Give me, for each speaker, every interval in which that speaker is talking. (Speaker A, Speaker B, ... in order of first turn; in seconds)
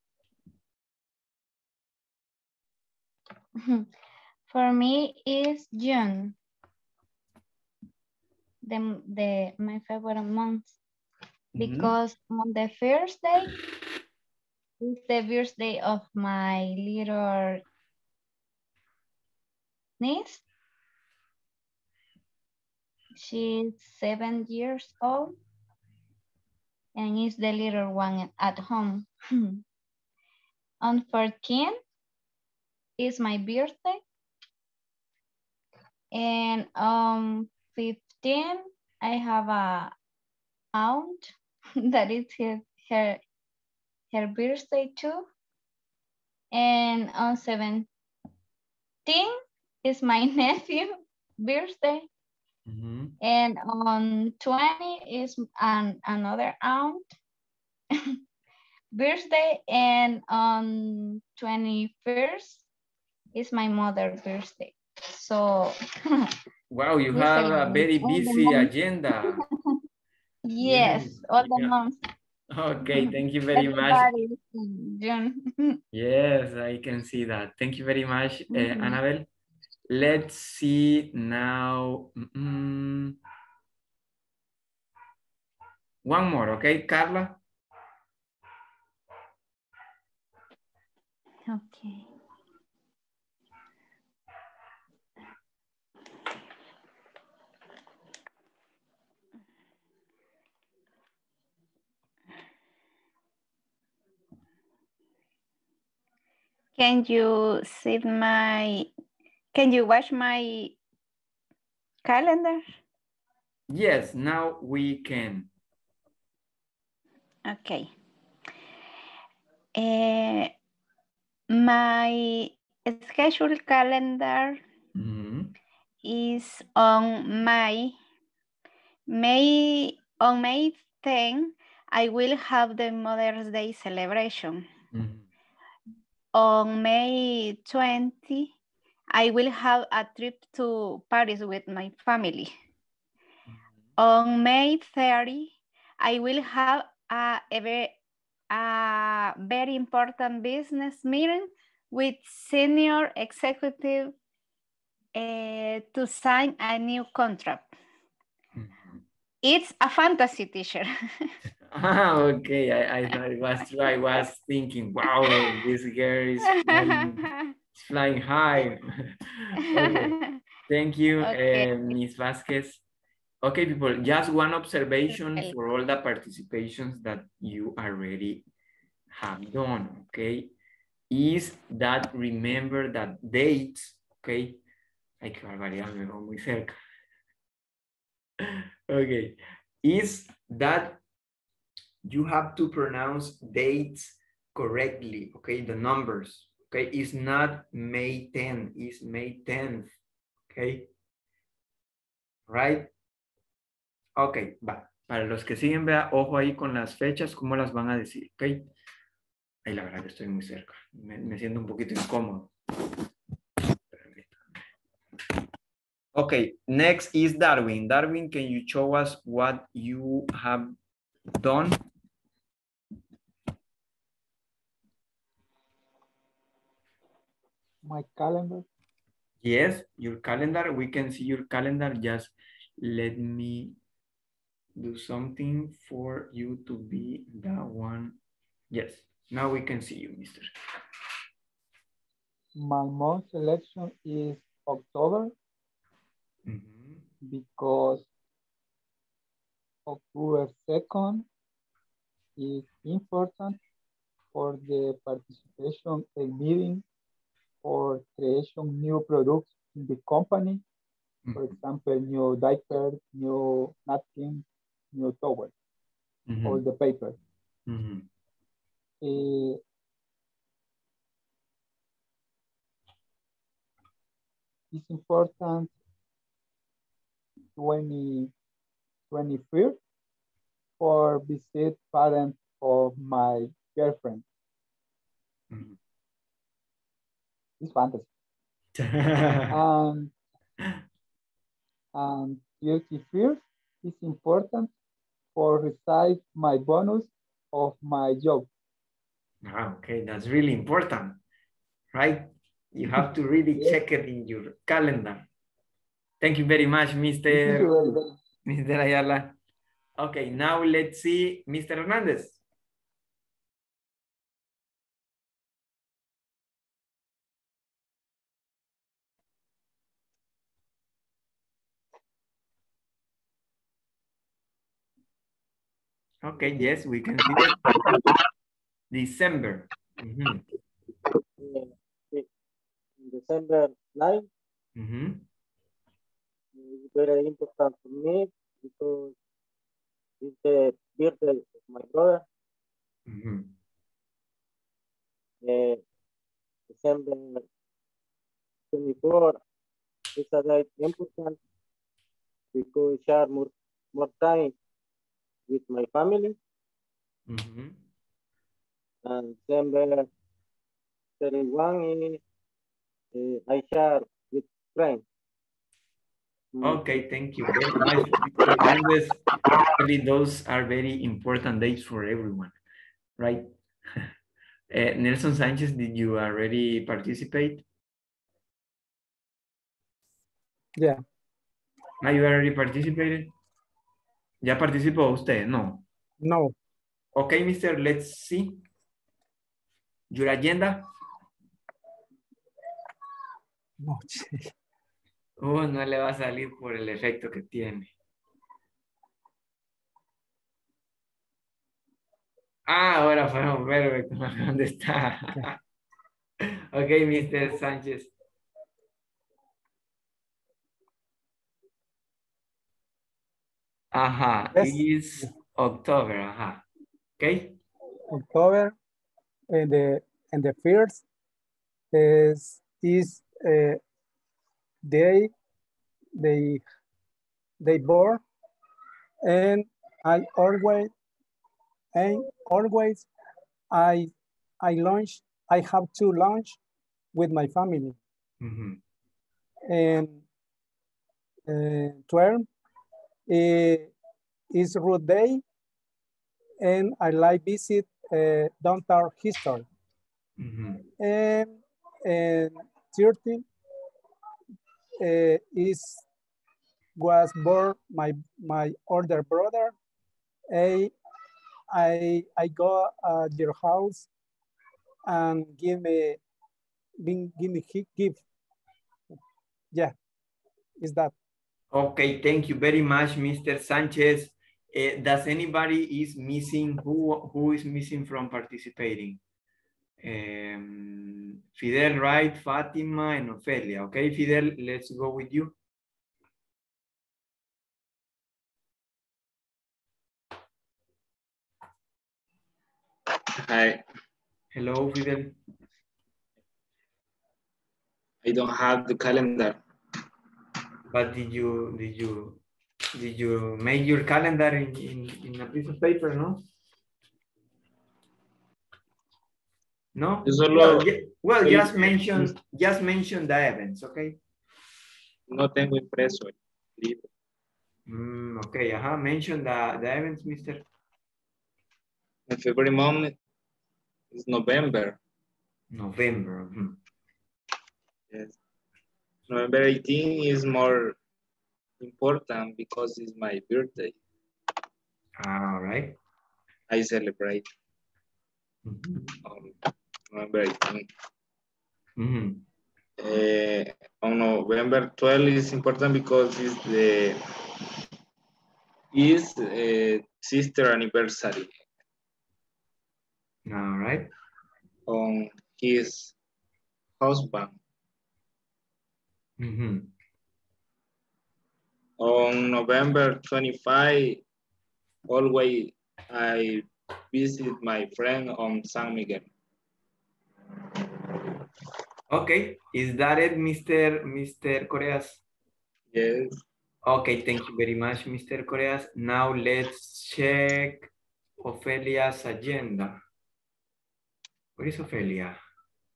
Speaker A: 3.6-3.9, 4.5-6.3, 8.6-10.7, 11.6-13.5, 14.8-17.6, 20.0-20.4, 23.1-25.3, 26.9-29.6, 30.8-31.8, 33.0-34.0, 36.1-39.9, 40.7-41.3, 41.8-43.2, 44.1-45.3, 46.5-47.9, 49.1-52.1, 53.2-57.1, 58.9-62.6, 63.4-65.8, 67.1-68.7, 70.5-72.0, 72.9-75.8, 78.5-79.0
Speaker B: 11.6-11.9, 52.7-53.1, 66.7-69.4, 70.6-71.7, 72.5-74.1, 75.9-79.3, 79.9-83.2, 86.0-87.4, 113.7-115.5, 124.9-125.5, 134.9-135.3, 158.6-159.0, 161.7-170.1, 170.7-172.8, 173.4-178.4, 179.1-180.5, 181.1-184.6, 185.2-186.7, 188.4-191.0, 192.1-199.9, 200.5-200.9, 202.5-202.9, 204.2-208.7, 209.7-212.5, 213.9-214.4, 216.1-220.7, 221.3-221.8, 229.4-233.8, 234.8-238.2, 238.7-240.5, 246.4-247.1, 261.2-261.6, 266.3-266.6, 267.7-268.1, 285.5-285.8, 288.7-289.6, 299.4-301.2, 301.9-305.3, 306.2-307.7, 308.4-309.4, 310.0-312.4, 326.2-327.8, 328.9-330.4, 334.8-335.2, 343.1-343.6, 357.3-357.8, 366.6-372.6, 373.2-374.1, 374.7-377.6, 382.0-383.3, 384.4-385.9, 387.1-388.6, 390.1-390.9, 395.4-397.9, 402.7-405.6, 406.7-408.1, 413.9-416.6, 417.2-417.6, 438.4-438.8, 450.4-450.9, 471.7-479.2, 480.0-485.5, 494.5-495.4, 500.9-502.4, 502.9-506.4, 509.9-514.2, 517.9-520.6, 525.7-526.8, 535.2-536.0, 538.6-539.2, 542.0-542.4, 553.5-554.1, 559.4-559.9, 572.1-575.2, 576.9-580.9, 581.4-583.0, 584.6-585.4
Speaker C: 91.5-92.1, 106.8-108.9, 109.5-110.8, 112.0-112.6, 117.5-117.9, 119.8-120.5, 121.5-124.6, 126.0-127.9, 129.1-134.6, 136.3-138.5, 139.1-142.5, 144.0-147.9, 148.5-154.1, 155.2-157.7, 159.4-160.9, 165.3-165.6, 166.5-167.4, 169.7-170.3, 171.2-171.7
Speaker D: 227.8-228.7, 242.6-245.3, 247.2-248.1, 249.8-251.3, 252.4-253.6, 254.3-256.8, 257.6-260.6, 261.4-265.5, 266.4-267.2, 269.0-269.6, 274.7-275.7, 277.6-278.3, 279.1-279.8, 280.8-284.2, 287.6-288.1, 289.5-290.1, 291.9-294.7, 295.4-298.5, 307.3-308.1
Speaker E: 331.4-332.2, 333.0-334.3, 336.6-339.1, 340.2-342.2, 345.4-345.8, 346.7-347.4, 348.7-349.4, 350.1-351.4, 352.5-354.5, 355.5-356.4, 359.1-360.1, 361.2-362.2, 363.1-365.0, 366.5-366.8
Speaker F: 386.2-386.6, 393.8-394.5, 414.6-415.2, 418.1-418.7, 419.5-421.1, 421.9-423.8, 424.9-425.3, 426.2-426.6, 427.6-428.2, 429.3-430.9, 431.9-433.1, 433.7-434.1, 434.6-436.6, 437.1-438.0, 439.7-440.2, 441.5-442.5, 443.3-443.9, 444.5-445.4, 446.6-449.6, 451.0-453.4, 455.0-456.1, 457.0-459.7, 460.5-460.9, 461.7-464.1, 465.1-466.2, 467.0-468.2, 470.8-471.1
Speaker G: 493.4-493.8, 498.2-499.6, 510.2-510.9, 511.4-512.3, 515.3-517.0, 522.3-523.1, 524.1-525.0, 528.1-528.4, 529.3-531.0, 531.8-533.9, 536.7-537.4, 539.2-539.5, 540.1-540.9, 543.0-547.2, 548.9-551.5, 554.9-556.1, 557.0-557.6, 562.0-564.2, 565.1-569.3, 575.9-576.4